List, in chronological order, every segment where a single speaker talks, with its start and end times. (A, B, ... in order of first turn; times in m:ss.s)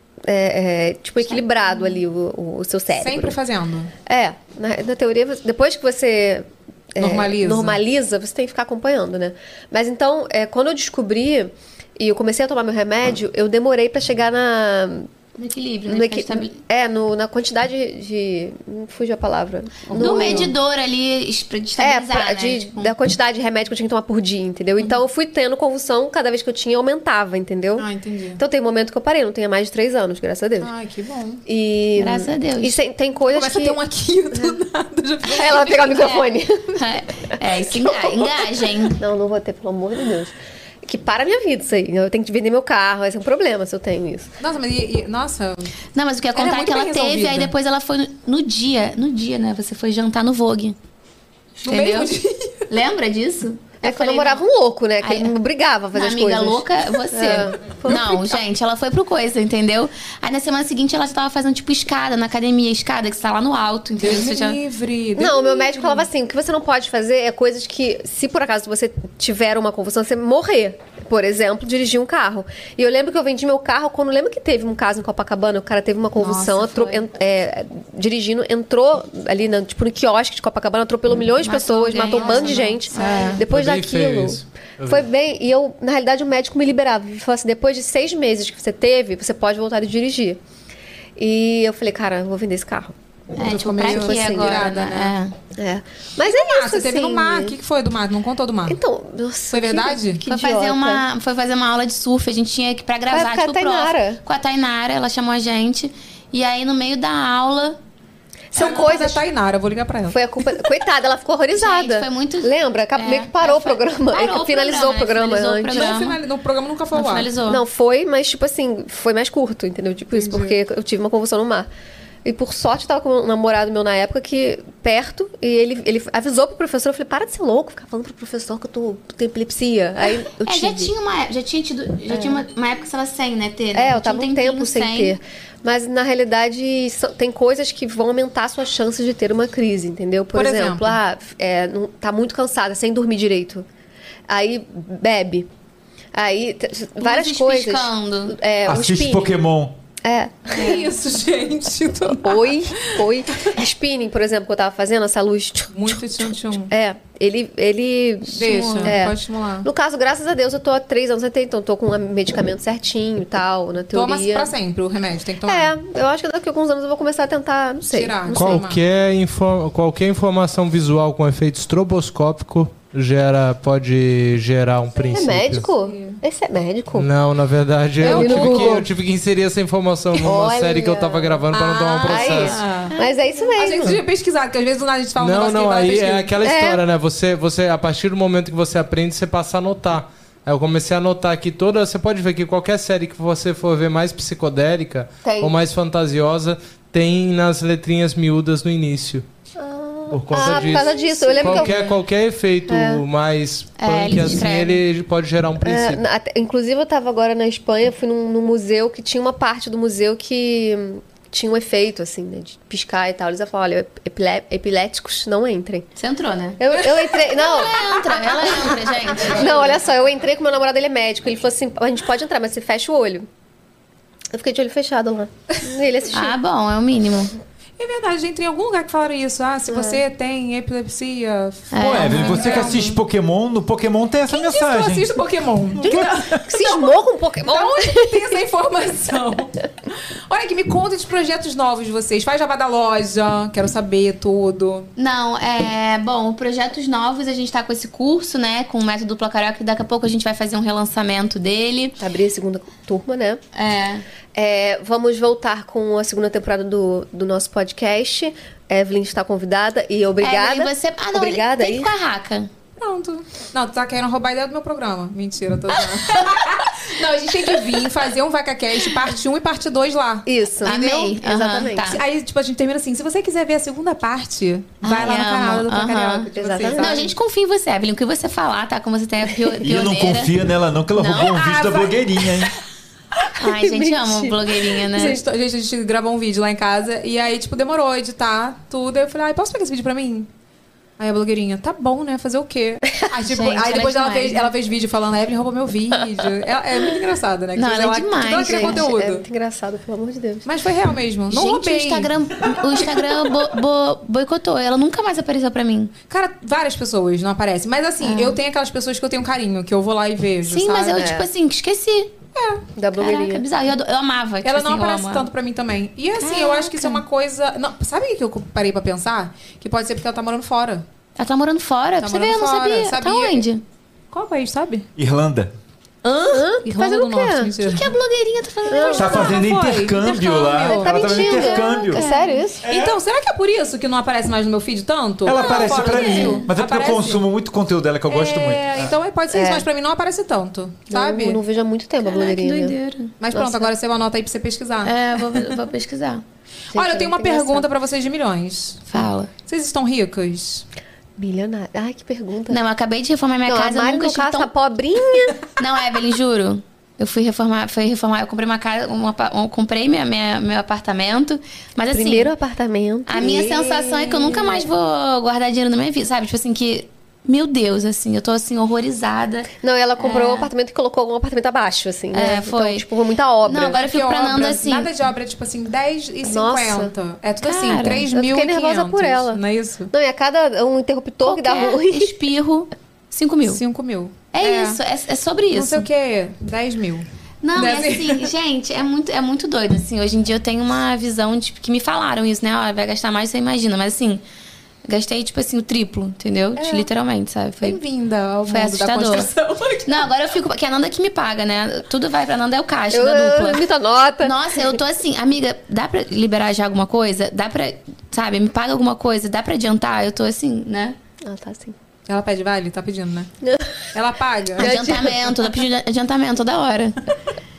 0:00.2-0:03.3 A
0:01.2-0:01.9 B
0:02.9-0:03.9 C
0:04.0-0:15.1 A
0:07.0-0:07.8 C
0:15.4-0:16.5 B
0:15.9-0:20.5 A
0:19.9-0:20.5 C
0:20.0-0:22.9 B
0:21.8-0:27.8 A
0:27.8-0:28.4 C
0:28.4-0:30.7 A
0:30.6-0:31.4 C
0:31.5-0:33.8 A
0:32.0-0:32.8 B
0:33.3-0:35.9 C
0:35.2-0:36.8 A
0:35.5-0:39.0 B
0:37.6-0:38.4 A
0:39.0-0:40.3 A
0:40.8-0:44.3 A
0:44.4-0:45.7 C
0:45.9-0:50.8 B
0:46.3-0:47.5 C
0:51.6-0:52.6 C
0:51.6-0:52.1 B
0:52.7-0:54.4 B
0:53.8-0:58.3 A
0:55.0-0:55.3 B
0:55.9-1:04.6 B
1:04.0-1:06.1 C
1:05.2-1:30.4 A
1:16.2-1:17.0 B
1:21.4-1:23.4 B
1:22.0-1:23.4 C
1:23.4-1:25.1 D
1:31.2-1:32.9 A
1:33.4-1:35.3 B
1:33.4-1:35.1 C
1:33.8-1:34.6 A
1:35.6-1:37.6 A
1:36.2-1:38.8 C
1:38.7-1:41.0 A
1:39.5-1:40.2 C
1:40.3-1:47.8 B
1:43.1-1:44.2 A
1:48.5-1:49.2 A
1:48.5-1:50.2 C
1:48.6-1:48.9 B
1:50.1-1:56.0 A
1:51.5-1:56.2 B
1:55.7-1:57.3 C
1:56.9-1:57.6 B
1:57.4-2:01.7 A
2:00.1-2:00.6 C
2:02.2-2:10.9 A
2:10.4-2:15.1 B
2:12.1-2:12.4 A
2:13.7-2:23.6 A
2:20.3-2:21.0 C
2:24.3-2:25.5 A
2:26.1-2:29.4 A
2:27.0-2:28.3 B
2:28.6-2:29.8 E
2:30.0-2:30.8 A
2:30.5-2:33.0 C
2:32.1-2:44.5 A
2:35.7-2:36.7 C
2:38.3-2:39.7 C
2:38.4-2:39.0 B
2:43.9-2:45.7 C
2:45.4-2:48.6 A
2:47.8-2:48.8 C
2:48.3-2:55.7 D
2:55.1-2:57.1 A
2:55.8-2:56.2 C
2:56.9-3:02.6 D
2:58.0-2:58.9 A
2:58.0-2:58.8 C
3:00.1-3:01.5 A
3:01.5-3:02.9 C
3:02.0-3:04.0 A
3:03.5-3:06.3 C
3:05.2-3:19.2 D
3:06.4-3:06.8 A
3:15.2-3:15.6 A
3:19.6-3:22.0 A
3:20.1-3:26.0 D
3:20.4-3:21.6 C
3:22.7-3:23.0 A
3:23.8-3:24.8 B
3:25.6-3:35.9 A
3:36.0-3:36.6 B
3:36.6-3:37.7 A
3:37.2-3:39.7 B
3:37.8-3:39.7 C
3:39.3-3:43.2 A
3:44.3-3:46.3 A
3:46.1-3:47.3 B
3:47.8-3:53.0 C
3:49.7-3:50.0 A
3:51.7-3:52.4 B
3:51.8-3:55.2 E
3:54.3-3:56.9 C
3:55.8-3:56.4 E
3:55.8-3:58.3 A
3:57.4-3:59.6 C
4:00.3-4:04.9 C
4:05.0-4:12.0 B
4:12.0-4:13.4 A
4:13.5-4:14.0 B
4:14.3-4:21.9 A
4:20.2-4:22.5 B
4:22.8-4:30.3 C
4:26.1-4:26.7 B
4:30.2-4:31.8 A
4:30.6-4:32.0 B
4:31.8-4:37.1 C
4:34.8-4:40.3 B
4:36.3-4:37.0 A
4:39.6-4:42.5 E
4:40.9-4:41.4 B
4:41.2-4:42.5 C
4:43.4-4:45.2 B
4:43.4-4:45.2 A
4:45.0-4:50.3 C
4:51.0-4:59.2 C
4:53.3-4:54.5 B
4:57.6-4:58.8 B
4:58.3-5:00.5 A
5:00.4-5:02.1 C
5:01.3-5:05.9 B
5:06.1-5:11.0 C
5:08.0-5:08.4 B
5:10.4-5:12.1 B
5:10.9-5:11.2 A
5:12.3-5:12.6 C
5:12.7-5:13.4 A
5:13.0-5:15.3 B
5:14.4-5:20.8 C
5:16.2-5:17.0 B
5:21.2-5:23.6 B
5:22.0-5:23.4 C
5:24.1-5:24.9 C
5:25.0-5:25.5 E
5:26.0-5:26.4 B
5:26.3-5:27.5 A
5:26.6-5:27.9 C
5:27.6-5:29.4 B
5:28.7-5:29.3 A
5:28.9-5:32.0 E
5:29.0-5:31.2 C
5:30.7-5:32.7 A
5:31.2-5:32.4 B
5:32.6-5:33.0 E
5:32.7-5:37.2 C
5:35.2-5:38.9 E
5:35.3-5:36.4 B
5:38.1-5:41.4 C
5:39.3-5:39.6 A
5:40.9-5:42.7 A
5:42.0-5:43.1 B
5:43.2-5:45.5 C
5:43.3-5:43.7 A
5:44.8-5:46.2 B
5:46.7-5:47.7 A
5:46.7-5:50.6 C
5:48.9-5:49.3 B
5:51.2-5:52.6 A
5:52.5-5:54.5 B
5:53.5-5:55.4 A
5:55.6-6:02.3 B
6:01.9-6:04.7 A
6:03.1-6:10.5 B
6:09.6-6:13.8 A
6:12.1-6:12.8 B
6:13.4-6:14.9 B
6:13.7-6:19.9 C
6:16.2-6:16.9 A
6:17.4-6:18.0 B
6:18.1-6:19.4 A
6:19.9-6:22.1 A
6:21.2-6:23.6 B
6:23.4-6:24.8 C
6:24.3-6:25.9 B
6:25.5-6:27.0 C
6:27.4-6:34.2 B
6:27.6-6:28.3 C
6:34.8-6:37.8 B
6:36.6-6:36.9 A
6:37.6-6:40.1 C
6:38.5-6:39.3 B
6:39.8-6:43.6 B
6:42.9-6:44.3 A
6:44.2-6:51.0 B
6:51.2-6:51.7 A
6:52.1-6:53.3 C
6:53.4-6:53.7 A
6:53.9-6:54.7 C
6:54.6-6:55.3 A
6:54.6-6:57.0 B